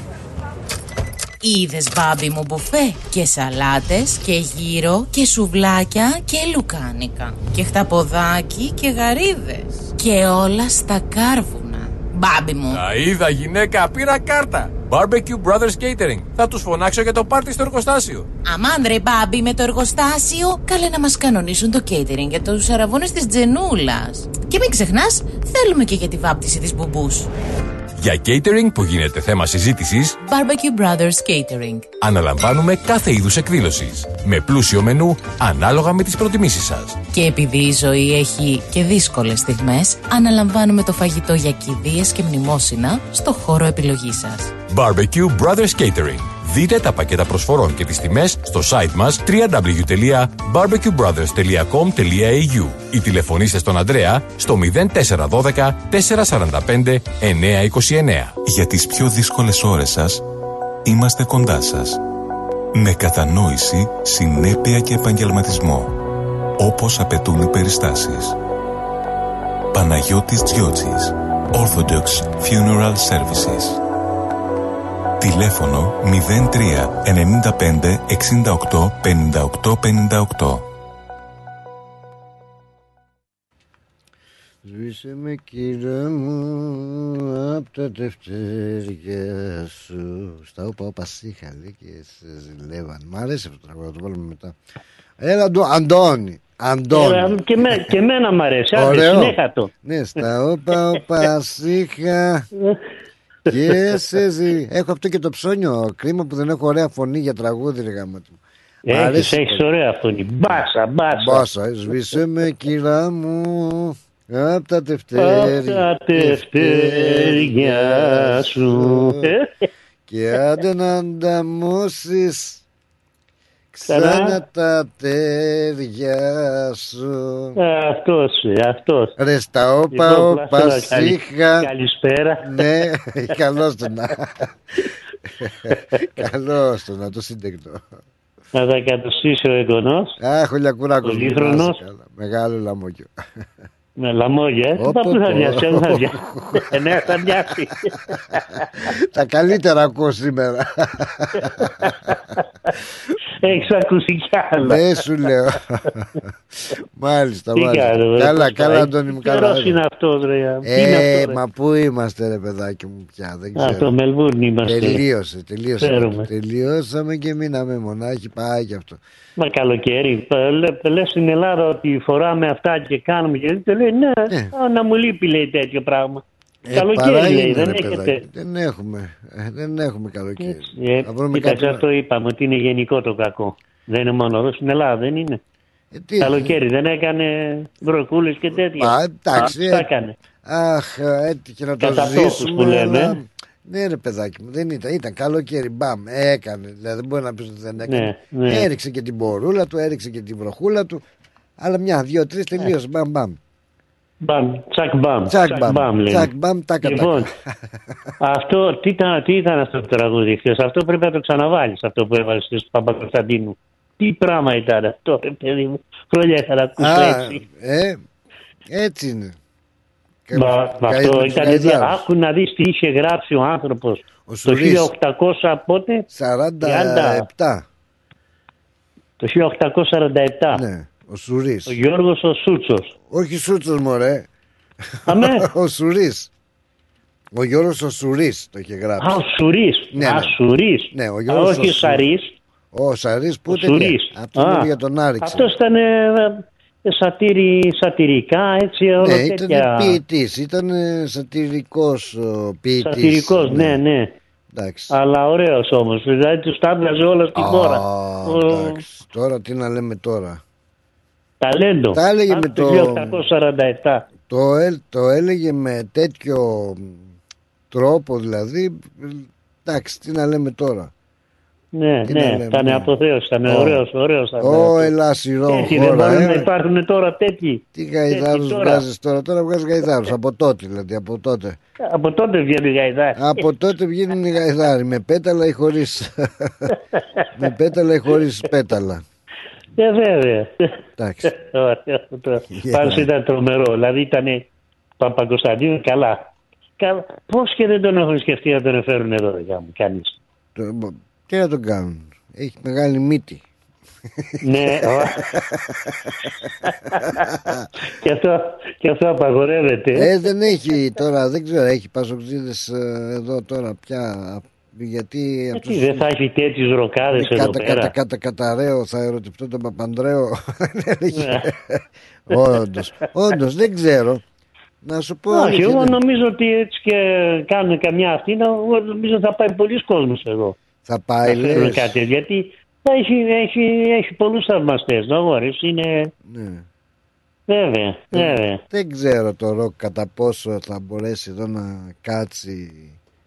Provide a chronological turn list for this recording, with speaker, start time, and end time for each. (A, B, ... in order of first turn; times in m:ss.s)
0:01.4-0:12.8 A
0:12.7-0:18.2 B
0:18.4-0:27.3 A
0:28.0-0:30.1 B
0:30.2-0:31.9 A
0:32.0-0:36.9 B
0:37.1-0:44.5 A
0:44.7-0:58.4 B
0:58.4-1:00.2 C
1:00.8-1:02.0 C
1:02.7-1:06.0 C
1:06.6-1:08.4 C
1:09.7-1:13.8 C
1:15.2-1:20.6 C
1:24.6-1:34.6 D
1:35.2-1:38.0 D
1:36.9-1:39.7 E
1:38.7-1:42.5 D
1:43.5-1:48.4 D
1:43.5-1:44.0 E
1:48.9-1:51.4 E
1:48.9-1:49.6 D
1:50.5-1:59.3 D
1:55.2-1:59.5 E
2:00.1-2:02.6 D
2:03.7-2:07.6 D
2:03.9-2:04.4 E
2:07.6-2:09.1 E
2:09.2-2:11.7 D
2:09.9-2:12.7 E
2:12.4-2:14.5 D
2:15.4-2:17.9 D
2:18.5-2:20.1 E
2:20.2-2:23.1 D
2:21.0-2:21.8 E
2:24.0-2:28.6 E
2:24.8-2:28.2 D
2:28.8-2:32.2 D
2:31.8-2:32.4 E
2:33.4-2:35.0 E
2:33.4-2:33.7 D
2:34.6-2:39.8 D
2:37.5-2:41.4 E
2:40.6-2:43.9 D
2:43.5-2:45.0 E
2:44.6-2:49.0 D
2:45.8-2:46.3 E
2:49.4-2:56.2 E
2:54.3-2:54.5 D
2:56.6-3:01.8 D
2:56.7-2:58.2 E
3:00.4-3:05.4 E
3:05.9-3:06.6 D
3:06.2-3:10.1 E
3:08.5-3:09.9 D
3:10.4-3:21.0 D
3:11.8-3:13.1 E
3:17.8-3:18.7 E
3:21.6-3:23.4 D
3:24.2-3:26.3 E
3:25.2-3:27.3 D
3:26.8-3:27.3 E
3:28.2-3:37.4 E
3:36.8-3:38.0 D
3:38.7-3:39.4 D
3:40.2-3:42.1 D
3:40.3-3:46.0 E
3:44.2-3:44.9 D
3:46.1-3:47.6 D
3:46.6-3:47.2 E
3:49.2-3:50.6 E
3:50.5-3:51.8 D
3:51.7-3:52.9 E
3:53.1-3:54.3 D
3:54.9-3:56.3 D
3:55.1-3:55.4 E
3:57.3-3:59.2 D
3:59.0-4:02.3 E
3:59.9-4:00.4 D
4:00.9-4:02.1 D
4:02.7-4:05.5 D
4:03.5-4:04.7 E
4:05.2-4:10.0 E
4:09.0-4:13.8 D
4:12.8-4:14.1 E
4:14.5-4:14.9 D
4:14.9-4:18.8 E
4:17.3-4:20.4 D
4:21.4-4:24.1 E
4:21.9-4:23.2 D
4:24.2-4:27.1 D
4:27.7-4:30.9 D
4:31.8-4:34.9 E
4:32.0-4:33.8 D
4:34.4-4:36.5 D
4:35.5-4:38.8 E
4:37.7-4:41.6 D
4:41.9-4:43.4 E
4:43.2-4:46.7 D
4:47.3-4:49.0 D
4:49.8-4:54.5 E
4:51.0-4:51.3 D
4:52.5-4:53.1 D
4:55.0-4:56.3 E
4:56.8-5:00.2 E
5:00.5-5:03.4 D
5:04.2-5:06.3 D
5:04.4-5:05.2 E
5:06.6-5:07.3 E
5:07.0-5:07.7 D
5:08.0-5:10.1 E
5:09.9-5:16.1 D
5:15.6-5:17.9 E
5:17.1-5:24.2 D
5:21.1-5:21.5 E
5:24.8-5:26.0 D
5:25.3-5:30.6 E
5:30.8-5:32.0 D
5:31.2-5:36.1 E
5:36.2-5:36.6 D
5:37.5-5:38.6 E
5:38.1-5:43.0 D